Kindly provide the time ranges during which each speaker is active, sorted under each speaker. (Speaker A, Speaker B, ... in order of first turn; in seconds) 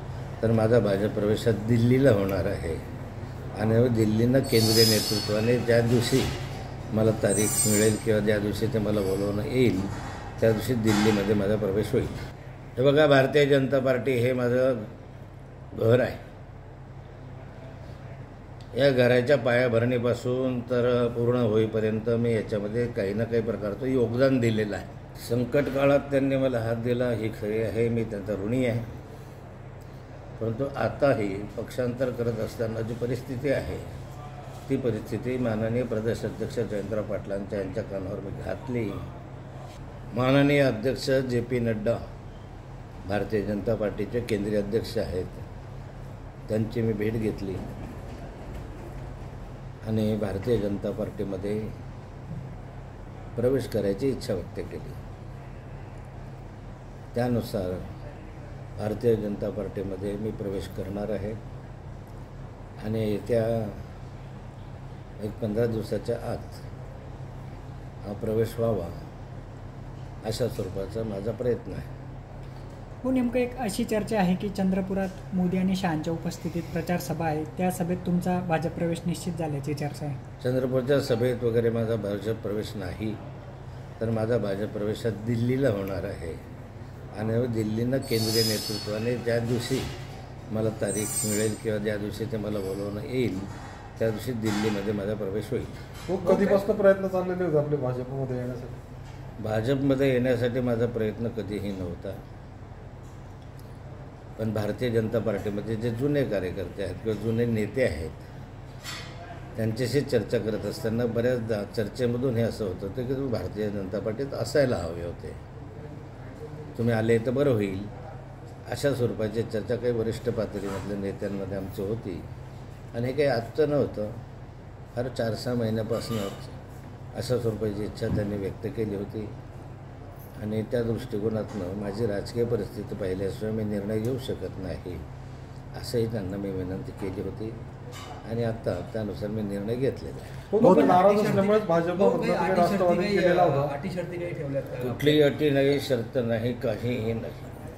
Speaker A: 0.4-2.8, 3.6-6.3, 6.9-12.2, 12.8-14.9, 15.7-16.2, 18.7-28.9, 30.4-33.9, 34.7-39.1, 40.1-42.0, 43.1-45.5, 46.5-47.6, 49.8-51.7, 53.4-55.0, 57.1-57.8, 58.8-61.4, 62.8-63.8, 65.2-66.6, 68.0-69.0, 70.2-71.9, 80.4-83.2, 84.0-86.4, 87.1-89.9, 90.5-95.8, 99.4-102.2, 104.4-108.2, 109.6-115.4, 116.8-117.9, 118.7-122.2, 122.9-124.1, 125.0-126.5, 127.1-129.3, 130.4-135.0, 135.8-137.5, 138.2-140.4, 144.8-147.7
Speaker B: 73.0-80.2
Speaker C: 96.1-98.8, 140.5-143.8
Speaker D: 96.2-96.6, 140.6-145.2